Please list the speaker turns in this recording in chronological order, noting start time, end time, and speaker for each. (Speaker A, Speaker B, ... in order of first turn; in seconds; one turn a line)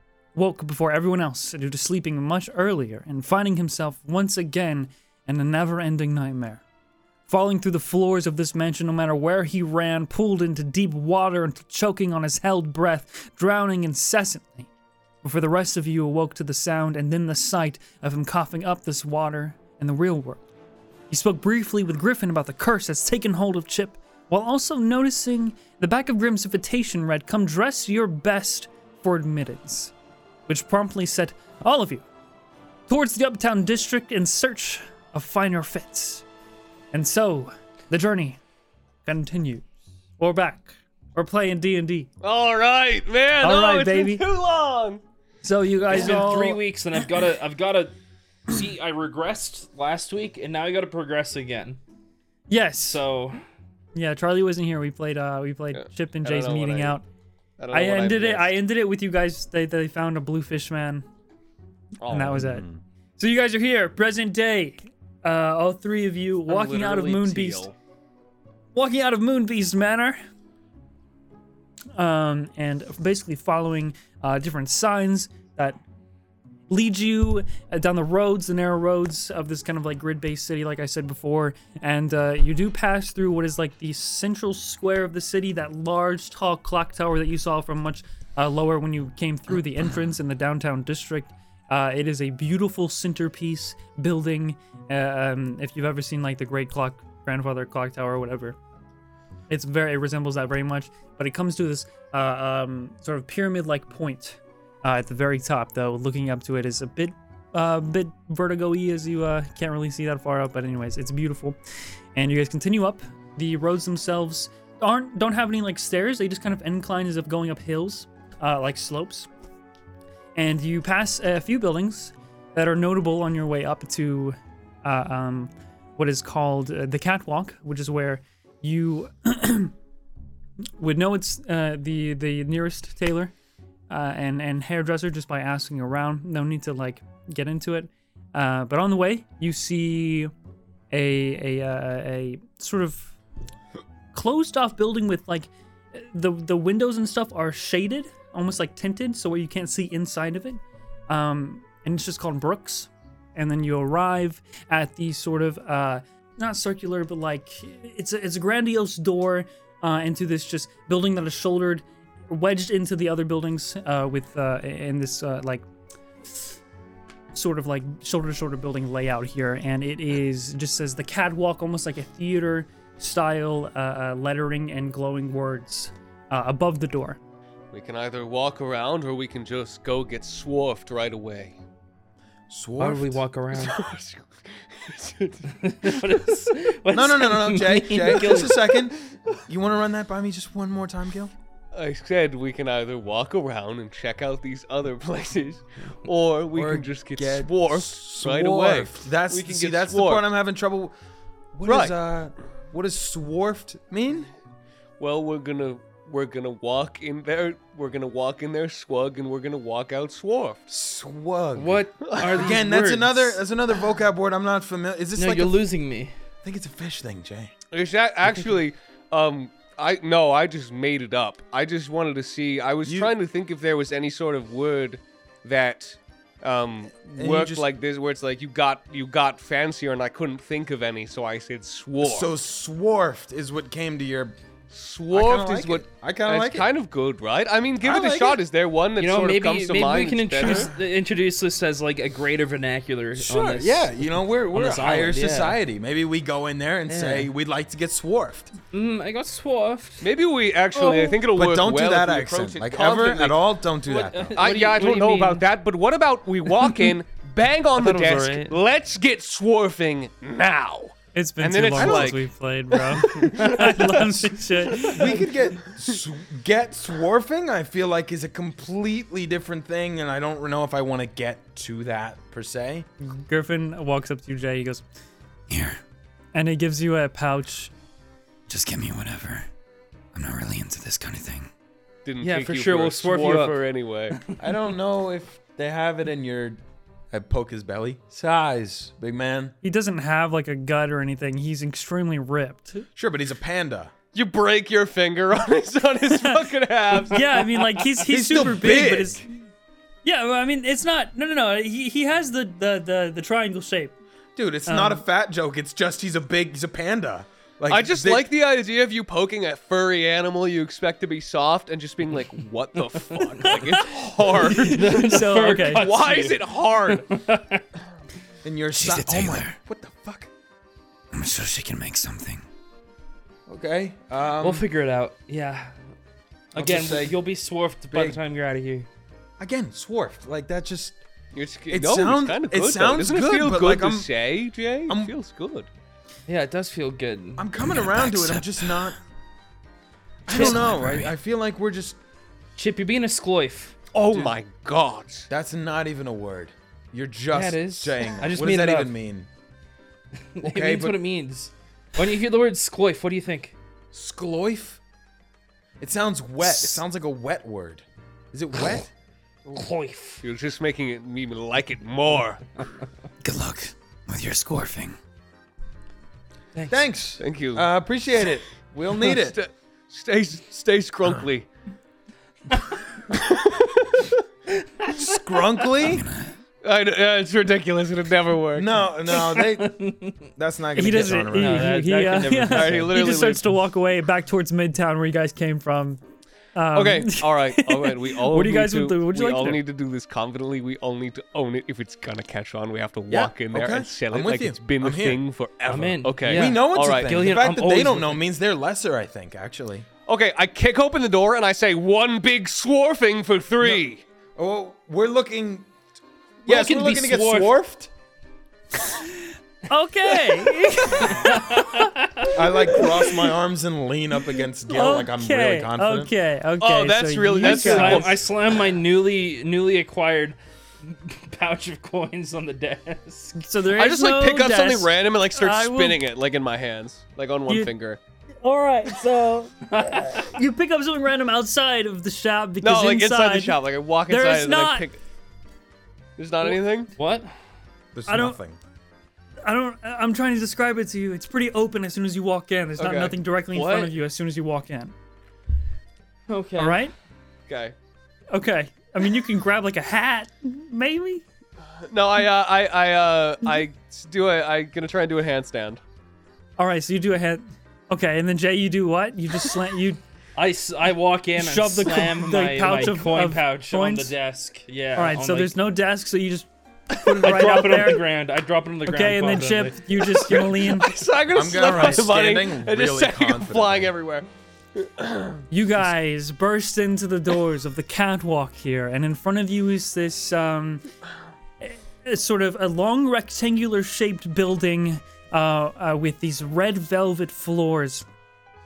Speaker A: 0.3-6.6
Speaker A: 7.3-14.7
Speaker A: 15.2-20.4
Speaker A: 21.1-29.9
Speaker A: 30.5-32.0
Speaker A: 32.9-36.2
Speaker A: 36.9-38.4
Speaker A: 39.0-39.6
Speaker A: 40.2-42.1
Speaker B: 42.2-45.0
Speaker A: 43.4-44.2
Speaker A: 45.4-46.6
Speaker C: 45.9-47.9
Speaker C: 48.5-51.8
Speaker A: 52.5-53.0
Speaker C: 52.9-53.4
Speaker A: 53.9-57.0
Speaker B: 55.7-57.0
Speaker B: 57.6-58.5
Speaker A: 57.7-61.0
Speaker B: 62.0-62.4
Speaker A: 62.1-67.7
Speaker D: 62.3-62.8
Speaker B: 66.5-67.7
Speaker A: 68.7-70.2
Speaker A: 71.9-75.8
Speaker A: 76.7-98.6
Speaker A: 99.5-111.6
Speaker A: 112.1-119.3
Speaker A: 120.3-129.7
Speaker A: 130.8-133.3
Speaker A: 133.9-140.3
Speaker A: 140.9-143.2
Speaker A: 144.1-165.6
Speaker A: 167.3-177.2
Speaker B: 177.7-181.6
Speaker D: 182.5-183.2
Speaker C: 182.8-183.8
Speaker B: 183.5-185.5
Speaker C: 185.6-188.8
Speaker D: 186.9-191.3
Speaker B: 191.7-200.2
Speaker D: 196.5-200.9
Speaker D: 201.5-204.3
Speaker B: 201.6-201.9
Speaker B: 205.0-210.6
Speaker D: 210.7-215.6
Speaker C: 211.6-213.4
Speaker B: 212.0-212.5
Speaker C: 215.2-216.1
Speaker D: 216.4-217.5
Speaker B: 217.7-232.3
Speaker D: 222.8-223.1
Speaker D: 227.1-227.7
Speaker D: 232.0-234.4
Speaker B: 234.7-240.7
Speaker D: 235.1-236.7
Speaker D: 237.8-238.4
Speaker C: 239.0-243.9
Speaker D: 243.2-248.5
Speaker C: 244.5-245.6
Speaker C: 246.9-247.3
Speaker C: 248.7-250.1
Speaker B: 250.0-253.4
Speaker D: 250.7-254.4
Speaker C: 253.8-255.5
Speaker B: 254.3-265.1
Speaker C: 257.7-258.6
Speaker A: 261.1-265.2
Speaker D: 261.7-262.1
Speaker D: 263.0-263.3
Speaker D: 264.8-272.9
Speaker A: 273.0-274.8
Speaker E: 275.5-275.8
Speaker A: 276.3-277.7
Speaker E: 278.5-279.4
Speaker E: 280.1-281.5
Speaker B: 282.0-284.2
Speaker C: 282.2-284.3
Speaker D: 284.4-286.6
Speaker D: 287.1-289.5
Speaker A: 289.6-292.9
Speaker D: 292.9-293.9
Speaker B: 294.1-297.4
Speaker A: 297.1-299.4
Speaker D: 298.1-299.2
Speaker A: 300.0-303.9
Speaker D: 304.4-308.3
Speaker A: 304.7-305.0
Speaker B: 307.7-317.1
Speaker C: 312.9-313.6
Speaker C: 314.4-317.6
Speaker A: 314.4-315.9
Speaker D: 318.4-320.3
Speaker E: 318.7-319.6
Speaker E: 321.1-322.4
Speaker D: 323.5-324.7
Speaker C: 324.4-325.7
Speaker D: 326.5-327.2
Speaker C: 326.5-328.9
Speaker D: 327.9-328.2
Speaker D: 329.4-331.0
Speaker B: 331.3-335.7
Speaker D: 331.7-334.1
Speaker D: 334.9-335.1
Speaker C: 336.3-337.5
Speaker D: 337.4-338.9
Speaker E: 337.6-338.9
Speaker D: 340.2-342.0
Speaker C: 340.3-340.6
Speaker E: 340.3-341.1
Speaker C: 342.6-343.8
Speaker B: 343.9-345.3
Speaker D: 345.3-349.3
Speaker C: 347.3-348.9
Speaker C: 350.3-353.6
Speaker D: 350.4-351.0
Speaker D: 353.9-354.8
Speaker D: 355.8-358.9
Speaker C: 356.4-356.8
Speaker C: 359.5-360.2
Speaker B: 360.2-362.4
Speaker E: 363.2-364.9
Speaker C: 366.5-366.8
Speaker D: 366.7-369.4
Speaker B: 367.2-367.7
Speaker B: 369.1-371.5
Speaker B: 373.1-374.1
Speaker D: 374.9-376.1
Speaker E: 375.9-376.3
Speaker B: 376.6-378.7
Speaker D: 378.5-381.7
Speaker C: 379.1-380.3
Speaker A: 380.7-386.0
Speaker C: 381.3-383.1
Speaker B: 382.5-383.4
Speaker A: 386.5-389.6
Speaker B: 386.7-397.1
Speaker D: 393.1-395.2
Speaker C: 395.7-398.2
Speaker D: 396.3-399.9
Speaker B: 400.1-404.0
Speaker D: 404.4-405.7
Speaker D: 406.4-407.9
Speaker C: 406.4-407.6
Speaker A: 408.8-409.1
Speaker A: 409.7-411.7
Speaker C: 410.4-412.3
Speaker D: 412.3-416.1
Speaker A: 414.7-418.1
Speaker B: 416.6-418.2
Speaker C: 417.4-423.5
Speaker A: 423.3-426.0
Speaker B: 423.7-428.0
Speaker A: 428.4-434.9
Speaker C: 429.7-430.3
Speaker B: 432.6-435.0
Speaker B: 436.2-436.9
Speaker C: 436.9-437.3
Speaker D: 437.9-438.6
Speaker A: 438.1-438.4
Speaker A: 439.4-444.9
Speaker B: 442.8-443.9
Speaker C: 446.3-446.8
Speaker A: 446.6-446.9
Speaker B: 447.5-447.7
Speaker A: 448.3-451.2
Speaker B: 451.8-455.8
Speaker A: 456.6-460.0
Speaker C: 460.4-465.5
Speaker A: 461.4-464.1
Speaker A: 464.9-468.0
Speaker D: 467.0-467.3
Speaker C: 467.1-470.4
Speaker A: 468.9-470.9
Speaker B: 470.3-475.4
Speaker D: 471.3-473.9
Speaker A: 475.5-480.9
Speaker A: 481.6-488.1